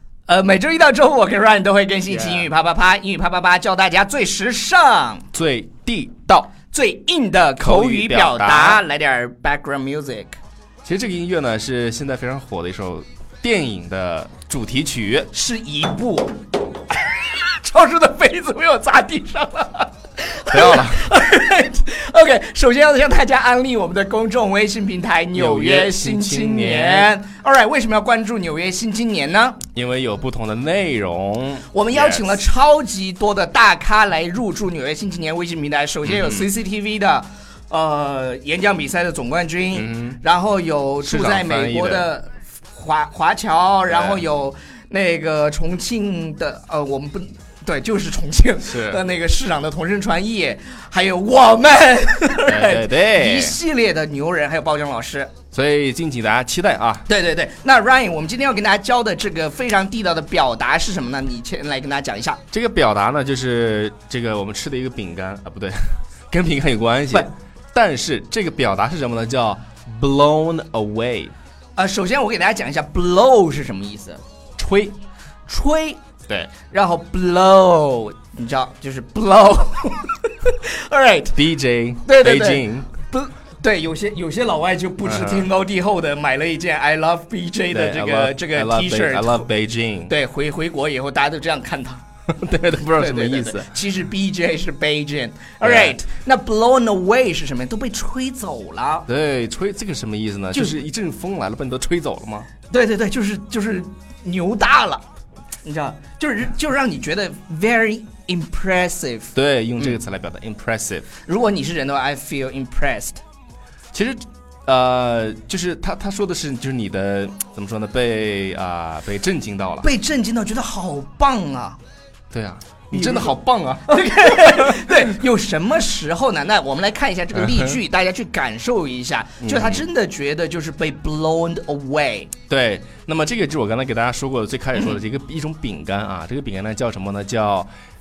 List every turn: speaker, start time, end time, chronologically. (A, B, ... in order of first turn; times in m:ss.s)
0:00.3-0:05.3 A
0:02.1-0:02.5 B
0:05.3-0:06.5 B
0:06.7-0:10.4 A
0:07.6-0:08.8 B
0:10.8-0:15.3 B
0:15.3-0:16.3 A
0:17.2-0:29.6 A
0:20.5-0:21.0 B
0:25.3-0:27.1 B
0:29.7-0:32.3 B
0:31.7-0:55.3 A
0:36.0-0:36.4 B
0:39.7-0:40.2 B
0:41.0-0:42.1 B
0:43.9-0:44.2 B
0:48.6-0:49.0 B
0:52.4-0:53.6 B
0:55.5-0:57.0 B
0:57.0-1:02.4 A
1:02.5-1:11.3 B
1:11.8-1:14.2 A
1:14.6-1:14.9 B
1:15.5-1:16.0 A
1:16.7-1:21.4 A
1:21.3-1:22.9 B
1:22.0-1:29.5 A
1:25.0-1:25.5 B
1:27.7-1:30.1 B
1:30.1-1:32.0 A
1:32.3-1:33.7 B
1:33.0-1:39.0 A
1:35.6-1:36.0 B
1:39.1-1:42.5 B
1:42.7-1:45.0 A
1:45.6-1:50.0 A
1:49.3-1:51.0 B
1:51.2-1:53.2 A
1:53.9-1:59.9 B
1:59.8-2:01.8 A
2:02.3-2:05.2 B
2:02.9-2:03.3 A
2:03.9-2:12.3 A
2:07.4-2:07.8 B
2:09.4-2:09.8 B
2:12.5-2:17.7 B